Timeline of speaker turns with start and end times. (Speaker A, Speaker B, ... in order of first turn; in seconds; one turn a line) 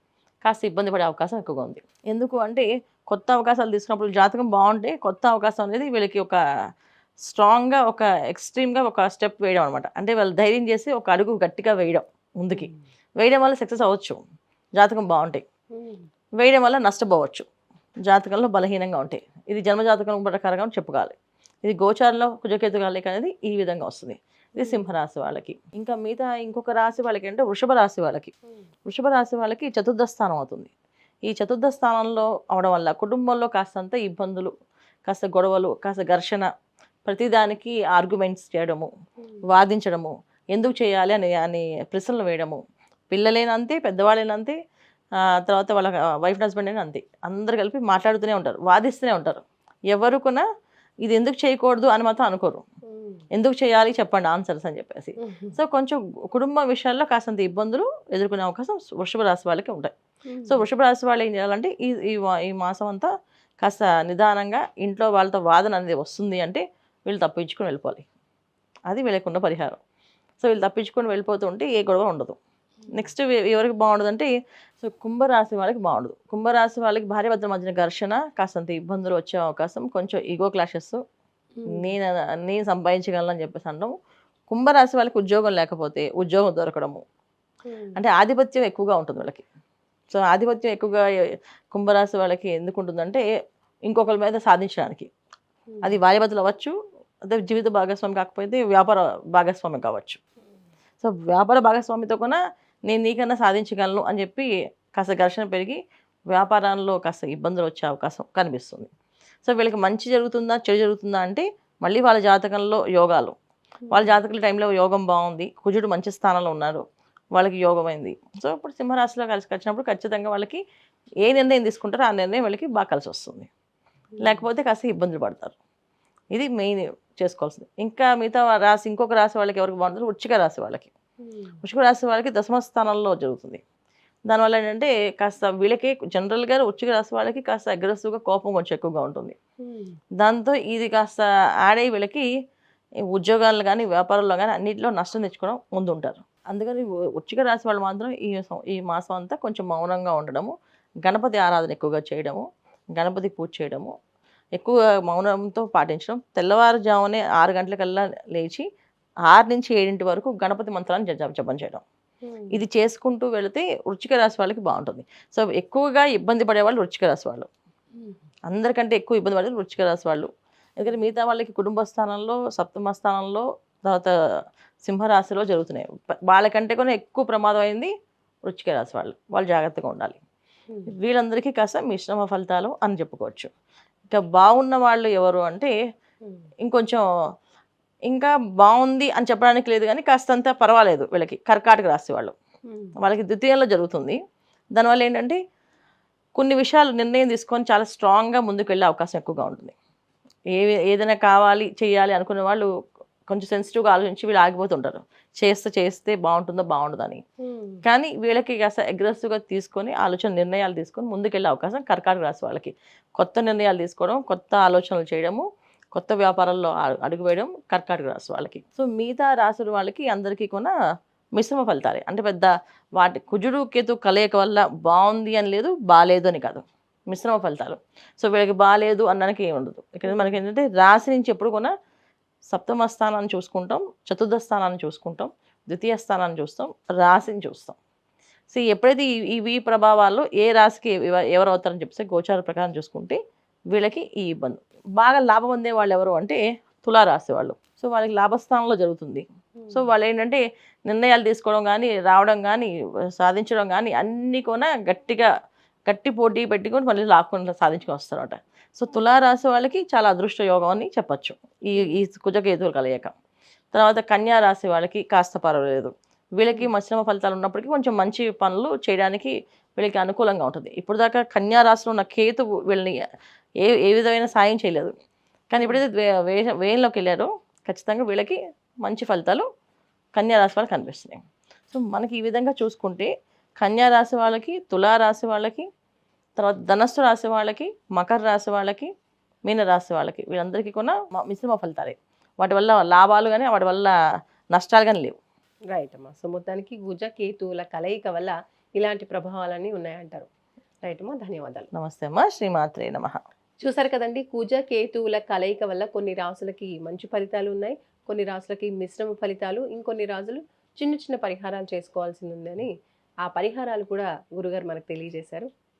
Speaker A: 0.4-6.4
Speaker A: 7.3-14.2
Speaker B: 12.5-12.8
Speaker A: 14.8-15.4
Speaker B: 15.8-16.1
Speaker A: 16.4-17.5
Speaker A: 18.1-28.3
Speaker B: 24.6-24.9
Speaker A: 28.9-30.7
Speaker A: 31.3-34.5
Speaker A: 35.1-36.5
Speaker A: 37.0-38.9
Speaker A: 39.5-42.6
Speaker A: 43.1-44.5
Speaker A: 45.2-50.4
Speaker A: 51.0-52.6
Speaker B: 52.9-53.2
Speaker A: 53.3-59.9
Speaker B: 55.2-55.6
Speaker B: 60.3-60.7
Speaker A: 60.5-63.1
Speaker A: 63.6-68.0
Speaker A: 68.9-69.8
Speaker A: 70.4-72.4
Speaker B: 72.9-73.1
Speaker A: 72.9-74.3
Speaker A: 74.8-81.0
Speaker B: 81.6-81.9
Speaker A: 81.7-83.9
Speaker A: 84.5-87.0
Speaker B: 87.7-88.0
Speaker A: 88.0-89.4
Speaker A: 90.1-91.0
Speaker A: 91.7-93.2
Speaker A: 93.9-95.1
Speaker B: 95.7-96.0
Speaker A: 95.8-96.7
Speaker A: 97.3-100.2
Speaker A: 101.0-105.8
Speaker A: 106.3-108.9
Speaker A: 109.4-113.3
Speaker B: 113.8-114.1
Speaker A: 113.9-116.8
Speaker A: 117.3-120.6
Speaker A: 121.2-123.5
Speaker B: 124.1-124.5
Speaker A: 124.2-125.5
Speaker A: 126.3-130.9
Speaker B: 131.2-131.6
Speaker A: 131.6-133.6
Speaker A: 134.3-139.3
Speaker B: 139.6-140.0
Speaker A: 140.2-142.3
Speaker A: 143.1-150.5
Speaker A: 151.0-153.9
Speaker A: 154.6-158.6
Speaker A: 159.3-161.8
Speaker B: 162.2-162.6
Speaker A: 162.5-167.5
Speaker A: 168.5-174.1
Speaker A: 174.8-177.9
Speaker A: 178.4-180.2
Speaker A: 180.9-183.5
Speaker A: 184.1-185.7
Speaker A: 186.6-187.0
Speaker A: 188.1-192.3
Speaker B: 192.7-192.9
Speaker A: 193.0-194.2
Speaker A: 194.8-195.4
Speaker A: 196.4-199.7
Speaker A: 200.5-202.7
Speaker A: 203.3-207.2
Speaker B: 207.4-207.8
Speaker A: 207.8-220.7
Speaker A: 221.4-231.7
Speaker B: 230.0-230.4
Speaker A: 232.5-237.8
Speaker A: 238.5-243.2
Speaker A: 243.7-255.3
Speaker B: 249.6-249.9
Speaker A: 255.9-263.1
Speaker A: 263.7-272.9
Speaker A: 273.6-274.9
Speaker A: 275.5-279.4
Speaker A: 280.1-281.2
Speaker A: 281.7-283.1
Speaker A: 283.6-285.7
Speaker A: 286.4-288.9
Speaker A: 289.4-293.9
Speaker A: 294.5-295.1
Speaker B: 295.7-300.3
Speaker B: 300.8-301.7
Speaker A: 301.7-303.2
Speaker B: 303.6-312.7
Speaker B: 313.2-315.5